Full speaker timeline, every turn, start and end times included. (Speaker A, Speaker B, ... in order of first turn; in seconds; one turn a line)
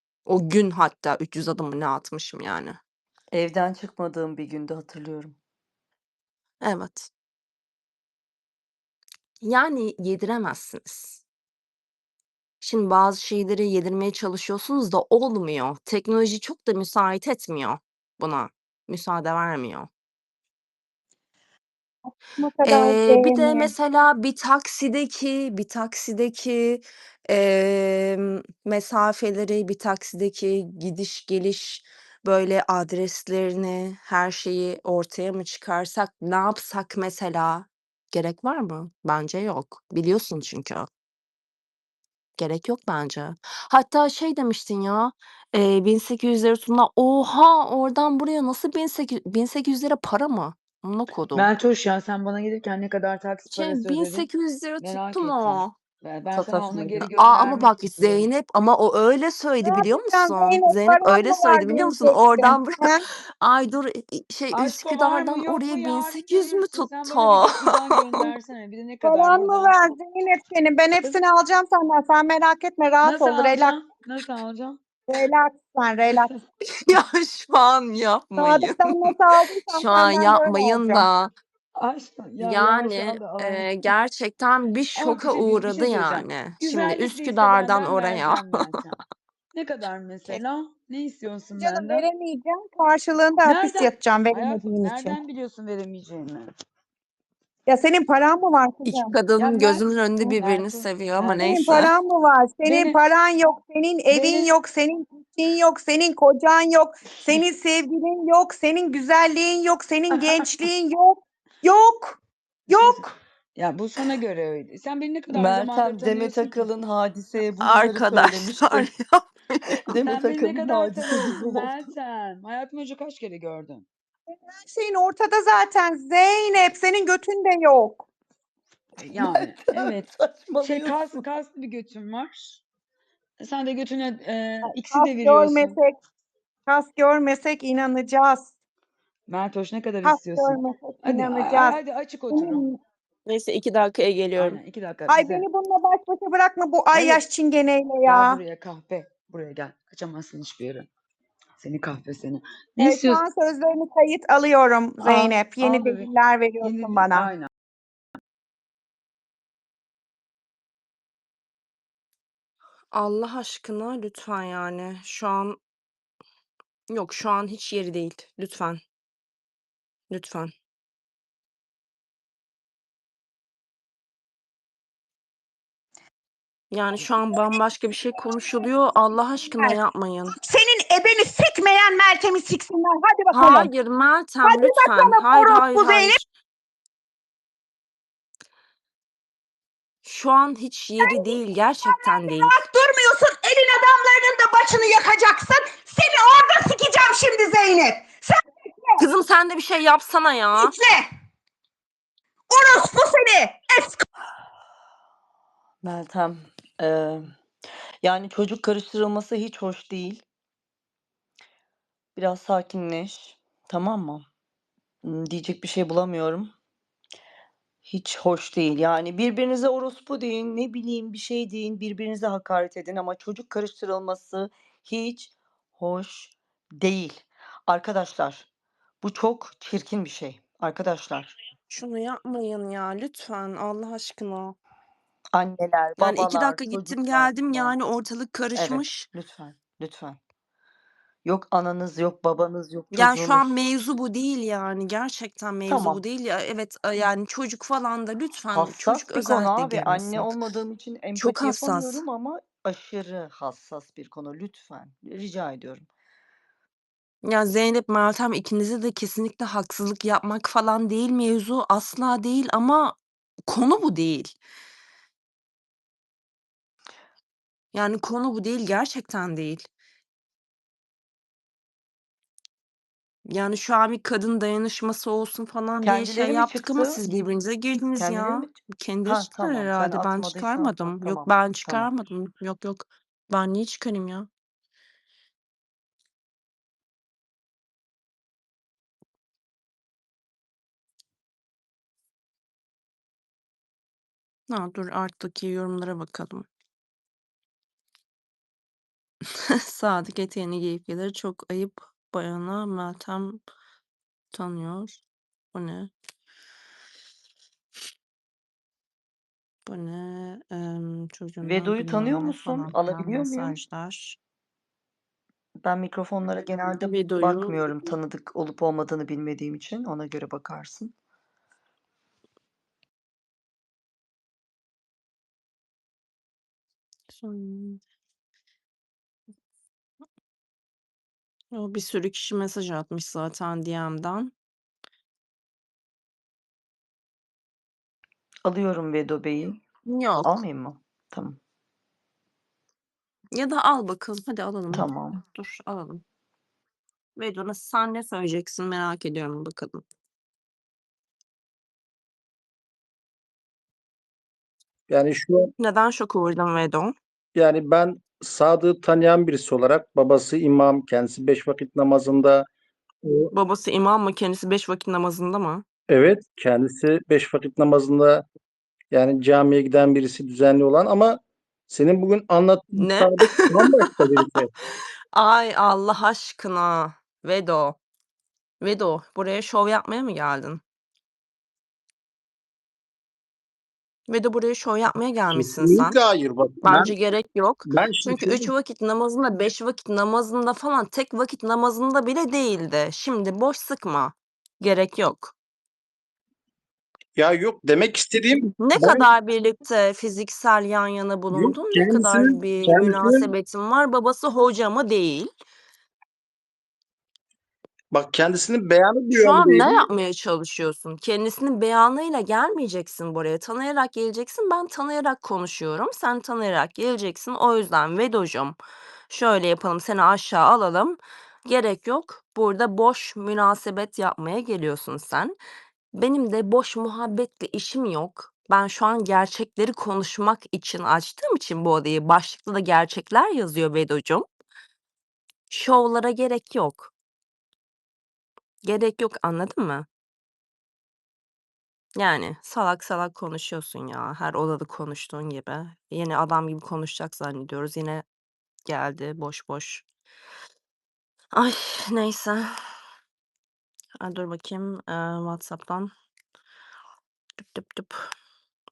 Speaker A: 0.2-2.8
Speaker B: 3.3-5.3
Speaker A: 6.6-7.1
Speaker A: 9.4-11.2
Speaker A: 12.6-19.9
Speaker C: 22.0-23.7
Speaker A: 22.6-40.9
Speaker A: 42.4-51.5
Speaker D: 51.3-54.3
Speaker A: 53.5-55.7
Speaker D: 54.8-58.3
Speaker B: 56.3-57.1
Speaker A: 57.1-68.2
Speaker C: 59.6-63.0
Speaker D: 64.5-69.9
Speaker C: 69.0-73.8
Speaker D: 73.0-74.8
Speaker C: 75.1-76.3
Speaker A: 76.7-79.1
Speaker C: 78.4-81.1
Speaker A: 79.7-81.3
Speaker D: 81.7-83.9
Speaker A: 82.4-88.8
Speaker D: 84.9-89.0
Speaker D: 89.5-92.0
Speaker C: 91.6-95.2
Speaker D: 93.4-96.5
Speaker C: 97.7-99.1
Speaker A: 98.8-101.9
Speaker D: 99.3-101.8
Speaker C: 101.3-113.1
Speaker D: 102.6-103.0
Speaker D: 104.1-104.5
Speaker D: 110.1-110.6
Speaker D: 112.7-113.0
Speaker D: 113.5-116.7
Speaker B: 115.3-118.9
Speaker A: 117.6-119.8
Speaker B: 119.8-121.8
Speaker D: 120.0-123.8
Speaker C: 124.3-128.0
Speaker D: 129.0-130.0
Speaker B: 129.1-131.2
Speaker D: 130.6-132.6
Speaker D: 133.4-135.7
Speaker C: 134.7-135.9
Speaker C: 136.7-138.5
Speaker D: 139.3-142.6
Speaker C: 140.0-142.8
Speaker A: 143.2-144.6
Speaker D: 144.3-145.4
Speaker C: 145.1-148.4
Speaker D: 146.9-147.2
Speaker D: 148.0-150.9
Speaker D: 151.6-153.2
Speaker C: 152.8-157.3
Speaker D: 155.0-156.1
Speaker D: 156.6-157.5
Speaker A: 162.9-165.6
Speaker A: 166.9-168.8
Speaker A: 170.1-170.5
Speaker A: 176.7-180.3
Speaker C: 180.3-183.7
Speaker A: 183.3-186.2
Speaker C: 184.4-186.2
Speaker A: 190.0-192.5
Speaker C: 191.0-199.0
Speaker A: 199.0-200.7
Speaker C: 200.6-201.1
Speaker C: 202.5-204.0
Speaker B: 205.8-207.3
Speaker B: 208.0-210.2
Speaker B: 212.2-214.2
Speaker B: 215.0-216.5
Speaker B: 217.8-228.5
Speaker B: 229.0-231.3
Speaker A: 231.7-234.5
Speaker B: 235.3-237.8
Speaker A: 236.0-239.1
Speaker B: 238.5-240.2
Speaker B: 241.2-243.5
Speaker A: 242.9-250.3
Speaker B: 245.7-246.0
Speaker B: 248.5-255.9
Speaker A: 251.1-252.0
Speaker A: 257.2-262.9
Speaker A: 263.5-264.4
Speaker A: 267.7-269.7
Speaker A: 273.2-284.3
Speaker B: 275.8-277.0
Speaker B: 277.9-281.9
Speaker A: 294.5-296.4
Speaker A: 299.6-303.4
Speaker A: 304.3-305.0
Speaker A: 305.5-305.9
Speaker A: 309.6-314.2
Speaker B: 311.4-313.6
Speaker B: 315.6-320.9
Speaker A: 316.8-317.9
Speaker A: 327.1-327.8
Speaker A: 331.5-334.3
Speaker B: 338.4-339.6
Speaker A: 339.9-340.4
Speaker B: 340.2-341.4
Speaker A: 343.3-346.0
Speaker B: 344.7-345.2
Speaker A: 347.1-349.8
Speaker E: 354.9-355.5
Speaker A: 355.6-356.9
Speaker E: 357.3-362.5
Speaker E: 363.0-363.3
Speaker A: 363.3-365.6
Speaker E: 365.9-368.2
Speaker E: 368.9-374.5
Speaker A: 372.8-373.8
Speaker A: 375.1-377.8
Speaker A: 378.6-380.6
Speaker A: 384.1-386.0
Speaker E: 385.3-386.9
Speaker A: 386.6-395.3
Speaker E: 387.6-388.5
Speaker E: 397.1-399.1
Speaker A: 398.5-405.3
Speaker E: 401.3-403.3
Speaker E: 407.9-409.8
Speaker A: 409.1-418.6
Speaker A: 419.1-425.4
Speaker A: 425.9-434.3
Speaker A: 435.5-436.9
Speaker A: 438.6-439.9
Speaker A: 441.9-448.0
Speaker A: 448.7-449.8
Speaker A: 451.3-452.5
Speaker A: 454.0-455.9
Speaker A: 457.4-457.9